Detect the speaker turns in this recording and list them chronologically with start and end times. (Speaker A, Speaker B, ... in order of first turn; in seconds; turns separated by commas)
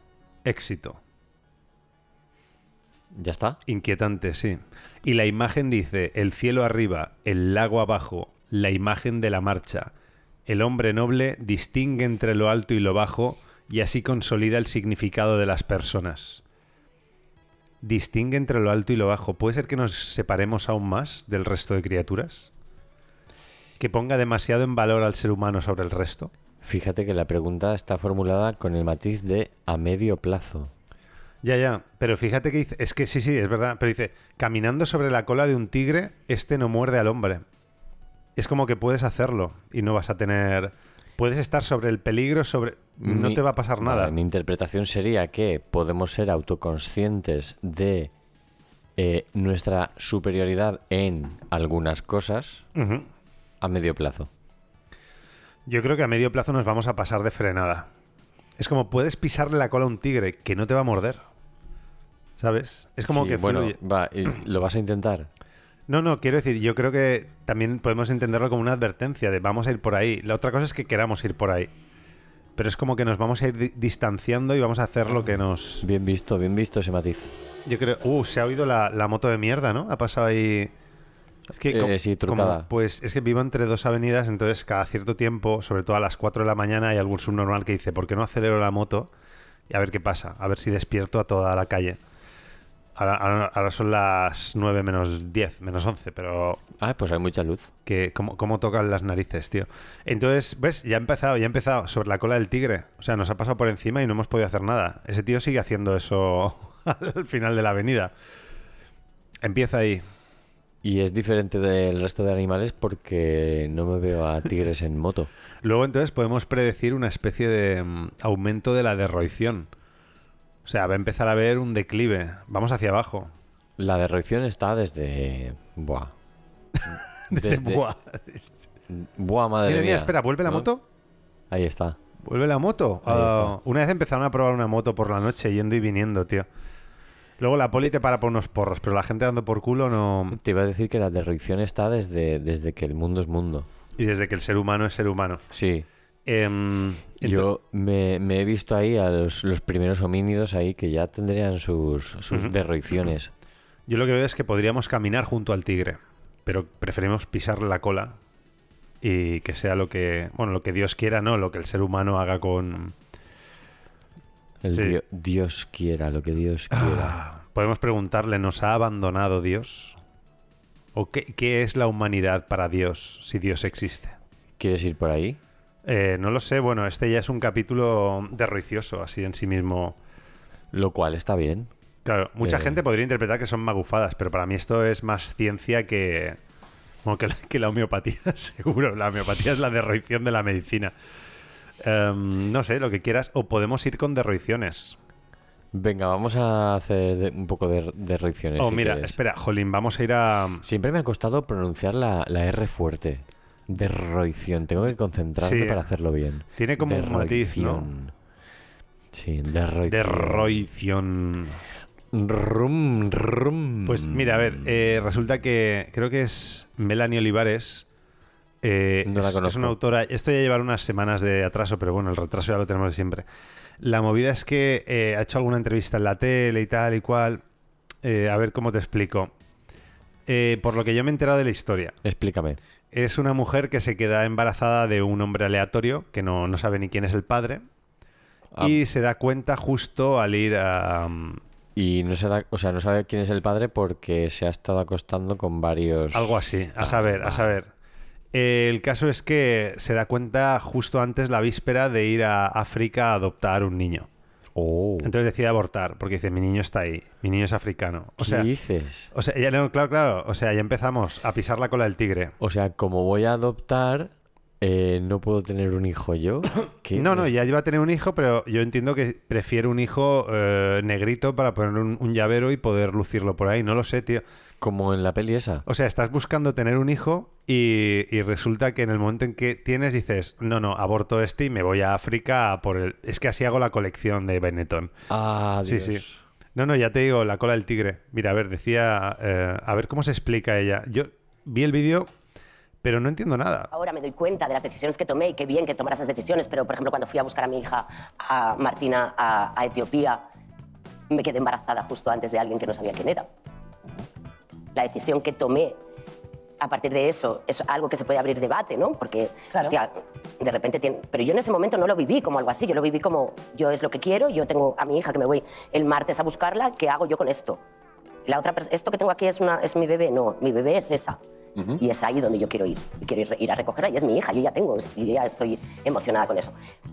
Speaker A: 0.4-1.0, Speaker B: 3.1-3.6, Speaker A: 3.6-9.9, Speaker A: 10.5-16.4, Speaker A: 17.8-22.5, Speaker A: 23.8-26.3, Speaker B: 26.6-30.7, Speaker A: 31.4-37.4, Speaker A: 38.4-44.1, Speaker B: 43.0-48.1, Speaker B: 49.0-52.6, Speaker A: 52.7-53.1, Speaker B: 53.6-54.3, Speaker A: 55.7-57.9, Speaker A: 58.6-61.2, Speaker A: 62.4-63.8, Speaker B: 63.0-65.3, Speaker A: 65.9-71.7, Speaker A: 72.6-75.8, Speaker B: 75.1-77.3, Speaker A: 77.7-80.7, Speaker A: 81.5-89.1, Speaker B: 81.6-82.7, Speaker A: 89.7-92.0, Speaker A: 93.0-96.6, Speaker B: 96.8-97.7, Speaker A: 97.8-108.1, Speaker A: 109.4-110.0, Speaker B: 110.8-115.3, Speaker A: 115.6-119.7, Speaker A: 120.7-123.3, Speaker B: 123.8-126.1, Speaker A: 126.8-128.5, Speaker B: 127.3-127.8, Speaker B: 128.9-130.7, Speaker A: 129.7-130.8, Speaker B: 131.5-132.0, Speaker A: 132.2-136.4, Speaker B: 133.0-133.5, Speaker A: 137.4-140.4, Speaker B: 140.3-143.7, Speaker A: 144.0-145.4, Speaker B: 145.5-145.9, Speaker A: 146.2-147.5, Speaker B: 147.2-153.3, Speaker A: 153.9-158.2, Speaker A: 159.0-162.9, Speaker B: 164.6-167.2, Speaker A: 166.7-170.0, Speaker A: 170.9-174.1, Speaker B: 174.6-175.4, Speaker A: 175.8-179.9, Speaker B: 180.7-181.7, Speaker A: 182.1-186.4, Speaker B: 182.4-182.8, Speaker A: 187.0-190.9, Speaker A: 191.8-195.0, Speaker B: 195.7-199.2, Speaker A: 198.6-200.6, Speaker B: 200.6-208.1, Speaker A: 205.4-205.9, Speaker A: 206.6-207.9, Speaker B: 209.1-210.7, Speaker A: 209.9-211.6, Speaker B: 212.1-214.7, Speaker A: 213.8-217.8, Speaker A: 218.6-223.2, Speaker B: 219.0-219.8, Speaker A: 223.8-227.4, Speaker A: 228.0-229.3, Speaker A: 230.3-232.0, Speaker B: 232.0-232.6, Speaker A: 232.9-237.6, Speaker B: 238.5-238.8, Speaker A: 238.6-241.4, Speaker B: 241.7-247.6, Speaker A: 246.1-247.7, Speaker A: 248.3-254.1, Speaker B: 254.5-255.1, Speaker A: 255.0-258.5, Speaker B: 258.2-259.1, Speaker A: 259.1-262.3, Speaker B: 262.4-267.3, Speaker A: 266.9-274.2, Speaker B: 274.6-275.6, Speaker A: 275.6-284.9, Speaker B: 285.1-286.2, Speaker A: 285.6-286.0, Speaker A: 286.6-292.1, Speaker A: 292.8-293.7, Speaker C: 293.7-300.2, Speaker C: 301.1-303.3, Speaker C: 304.8-305.8, Speaker C: 306.6-317.6, Speaker C: 318.3-321.2, Speaker C: 321.8-326.5